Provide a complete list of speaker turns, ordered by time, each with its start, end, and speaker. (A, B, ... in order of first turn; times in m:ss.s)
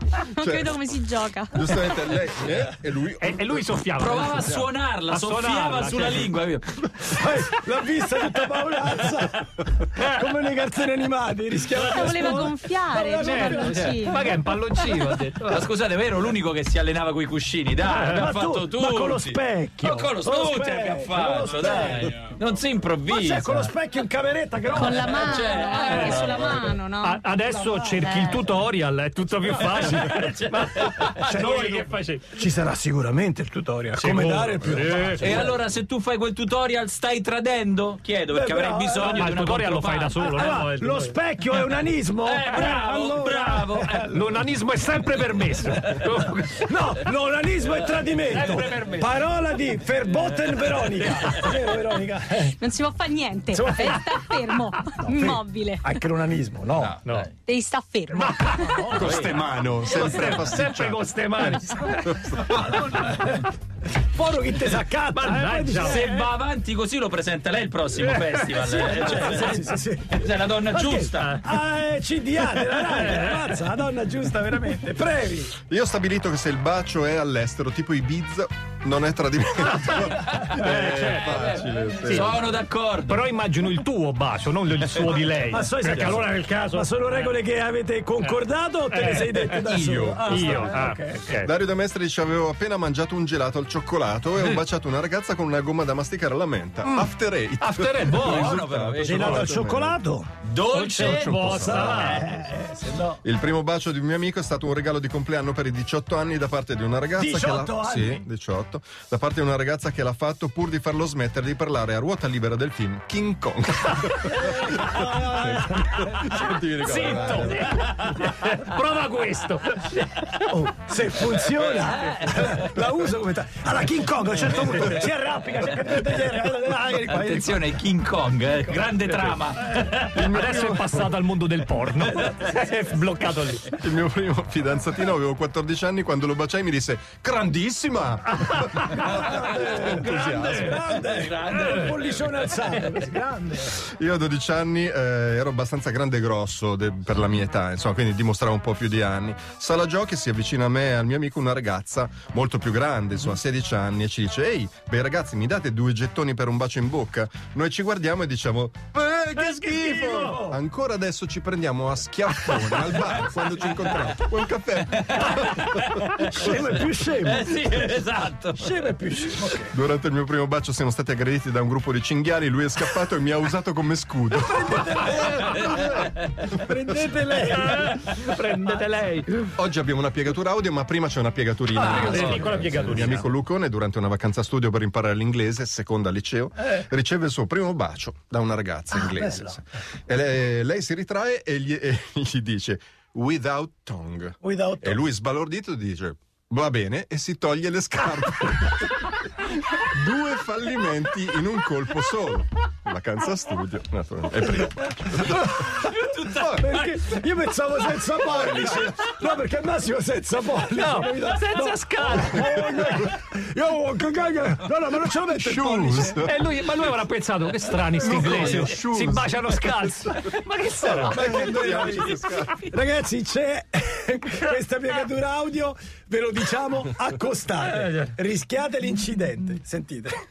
0:00.3-0:01.7 A
0:00.4-0:00.8 B
0:01.5-0:03.7 B
0:03.2-0:06.3 C
0:04.0-0:06.8 D
0:07.0-0:14.4 E
0:10.0-0:10.2 C
0:11.7-0:12.5 C
0:11.9-0:14.3 A
0:13.2-0:15.6 C
0:13.6-0:14.1 D
0:14.9-0:23.6 D
0:17.8-0:22.3 E
0:23.1-0:25.0 E
0:24.7-0:26.8 D
0:24.7-0:27.3 A
0:25.8-0:32.2 C
0:26.0-0:26.4 E
0:27.4-0:28.6 E
0:27.8-0:28.4 A
0:29.4-0:30.4 E
0:29.6-0:31.3 D
0:31.2-0:35.6 E
0:34.0-0:35.5 C
0:35.2-0:40.6 D
0:38.3-0:39.4 E
0:39.0-0:41.2 C
0:40.2-0:44.2 E
0:42.2-0:44.1 D
0:44.1-0:46.6 C
0:46.6-0:52.6 E
0:48.3-0:49.2 C
0:52.5-0:56.0 A
0:53.5-0:54.1 E
0:55.0-0:57.0 E
0:56.8-0:57.3 D
0:57.0-0:57.3 C
0:57.4-0:58.9 A
0:58.2-0:59.1 E
0:58.2-0:58.6 C
0:59.0-1:02.8 B
0:59.0-0:59.3 D
1:00.0-1:02.2 C
1:02.5-1:03.4 E
1:04.0-1:06.3 E
1:05.2-1:06.0 C
1:05.8-1:11.4 D
1:08.0-1:08.3 C
1:08.5-1:15.6 E
1:12.8-1:13.4 C
1:15.7-1:22.4 B
1:20.6-1:27.3 C
1:21.3-1:23.2 D
1:25.5-1:31.3 E
1:28.2-1:31.5 C
1:29.7-1:30.2 B
1:31.4-1:40.0 B
1:36.9-1:37.1 E
1:37.6-1:38.5 C
1:38.1-1:39.5 D
1:39.0-1:40.3 E
1:40.4-1:42.0 D
1:40.7-1:42.2 C
1:40.9-1:43.2 E
1:41.0-1:42.4 B
1:43.2-1:57.8 B
1:47.2-1:48.2 E
1:54.2-1:57.5 E
1:56.9-1:59.8 C
2:00.4-2:07.8 E
2:07.0-2:10.1 D
2:08.6-2:09.0 E
2:09.9-2:13.7 C
2:10.1-2:11.0 B
2:12.2-2:12.6 E
2:13.8-2:20.8 B
2:19.1-2:23.8 E
2:21.1-2:22.2 D
2:23.8-2:46.6 B
2:39.3-2:40.6 E
2:45.1-2:46.6 D
2:46.3-2:47.9 E
2:47.3-2:48.9 D
2:48.5-2:49.7 E
2:49.7-2:55.0 B
2:54.3-2:59.0 E
2:57.6-2:59.5 C
2:59.6-3:25.8 B
3:01.8-3:03.2 C
3:01.9-3:03.1 D
3:08.9-3:09.6 E
3:14.4-3:15.1 E
3:25.2-3:36.3 E
3:25.8-3:26.9 D
3:26.4-3:26.7 B
3:30.8-3:33.0 C
3:35.3-3:36.3 B
3:36.2-3:41.2 C
3:38.0-3:39.3 B
3:40.8-3:50.2 E
3:41.0-3:42.6 B